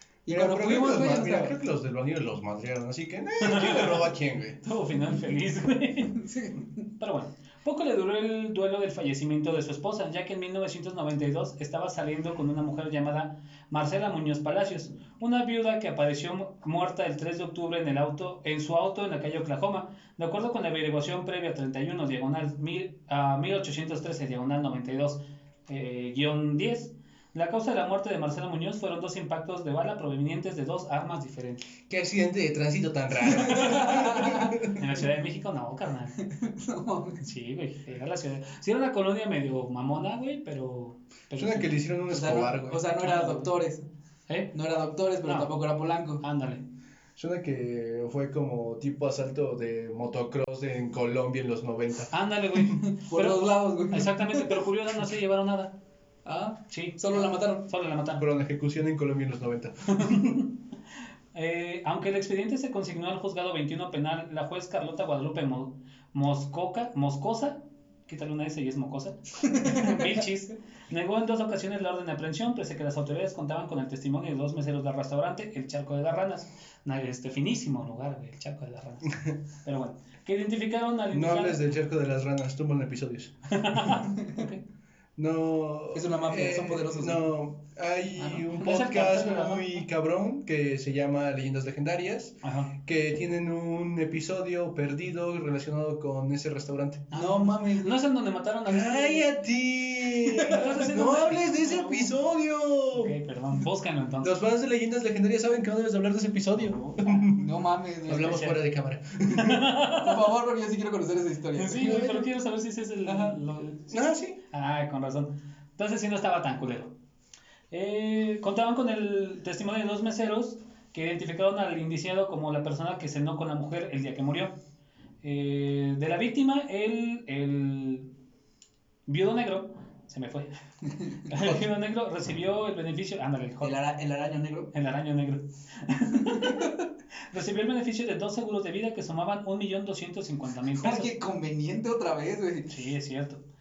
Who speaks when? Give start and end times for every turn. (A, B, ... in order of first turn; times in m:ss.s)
0:00.3-0:01.6 A
0:00.3-0:04.6 B
0:03.4-0:04.1 C
0:04.6-0:06.2 C
0:06.1-0:06.7 A
0:07.0-0:31.7 C
0:31.9-0:34.8 B
0:33.4-0:34.6 A
0:34.6-0:36.2 C
0:36.2-0:37.3 A
0:37.2-0:41.8 C
0:41.4-0:42.8 B
0:42.1-0:43.8 A
0:43.0-0:43.5 C
0:44.3-0:44.5 C
0:44.5-0:46.2 A
0:45.2-0:45.5 C
0:46.2-0:46.6 C
0:47.2-0:52.1 B
0:52.1-0:55.8 C
0:52.7-0:54.6 A
0:56.2-0:57.7 A
0:56.7-0:58.2 C
0:58.2-1:00.4 B
1:00.0-1:00.4 C
1:01.3-1:21.6 C
1:09.5-1:10.2 A
1:19.1-1:19.4 B
1:21.1-1:24.0 B
1:23.5-1:24.6 C
1:25.2-1:37.0 B
1:25.9-1:27.2 A
1:28.2-1:28.5 A
1:28.5-1:29.8 C
1:32.4-1:32.7 C
1:37.1-1:39.3 C
1:37.1-1:37.9 A
1:38.7-1:43.1 B
1:40.1-1:42.1 C
1:42.9-1:44.4 C
1:44.2-1:47.5 B
1:46.7-1:47.3 C
1:47.3-1:48.6 A
1:48.1-1:49.7 B
1:49.3-1:50.3 C
1:49.9-1:52.3 A
1:51.6-1:56.9 C
1:53.0-1:53.4 A
1:53.9-1:54.4 B
1:57.7-2:04.6 C
2:05.2-2:08.1 C
2:09.1-2:10.5 C
2:10.8-2:11.6 A
2:11.2-2:13.8 C
2:13.6-2:14.7 A
2:14.7-2:16.8 C
2:16.2-2:16.8 A
2:17.3-2:21.1 C
2:20.7-2:22.8 A
2:22.7-2:23.4 C